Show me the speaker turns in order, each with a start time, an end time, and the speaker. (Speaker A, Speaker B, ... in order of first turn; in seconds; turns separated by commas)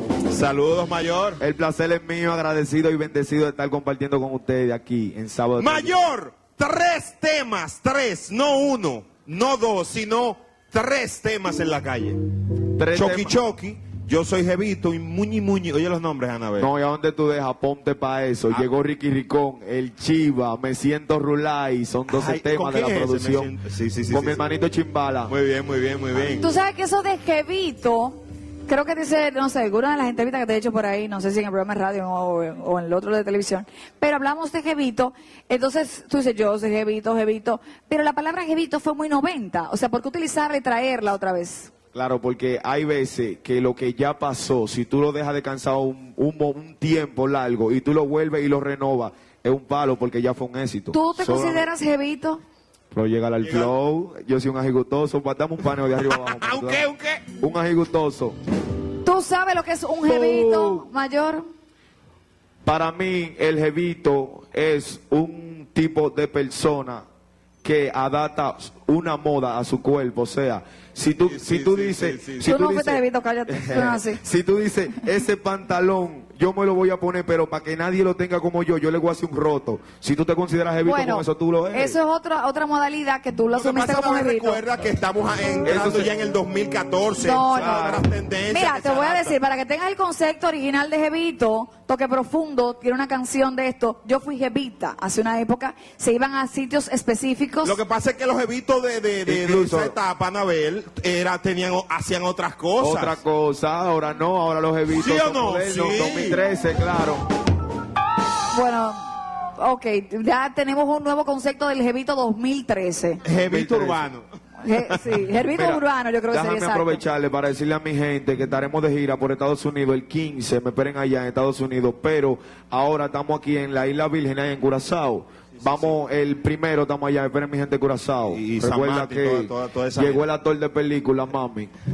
Speaker A: 0.3-1.4, Speaker B: 1.4-6.0, Speaker A: 5.6-12.2, Speaker B: 12.8-13.4, Speaker A: 12.9-16.7, Speaker B: 16.6-23.5, Speaker A: 22.1-24.4, Speaker B: 24.1-25.3, Speaker A: 25.3-26.4, Speaker C: 26.4-41.7, Speaker B: 41.9-51.7, Speaker C: 50.9-52.4, Speaker B: 52.9-58.4, Speaker A: 53.4-53.7, Speaker A: 56.0-57.2, Speaker C: 59.0-61.4, Speaker B: 60.0-60.9, Speaker B: 62.6-67.0, Speaker B: 67.6-82.0, Speaker A: 71.2-72.5, Speaker C: 72.4-74.2, Speaker C: 80.8-84.6, Speaker A: 83.5-89.4, Speaker B: 85.6-86.1, Speaker C: 87.2-97.8, Speaker B: 87.5-88.0, Speaker A: 97.6-103.2, Speaker B: 99.2-99.9, Speaker B: 102.8-107.2, Speaker A: 104.9-106.4, Speaker C: 108.5-109.0, Speaker C: 109.6-113.2, Speaker A: 113.2-114.2, Speaker B: 113.5-114.1, Speaker C: 114.6-117.0, Speaker B: 115.3-131.7, Speaker A: 125.6-125.9, Speaker A: 128.3-130.2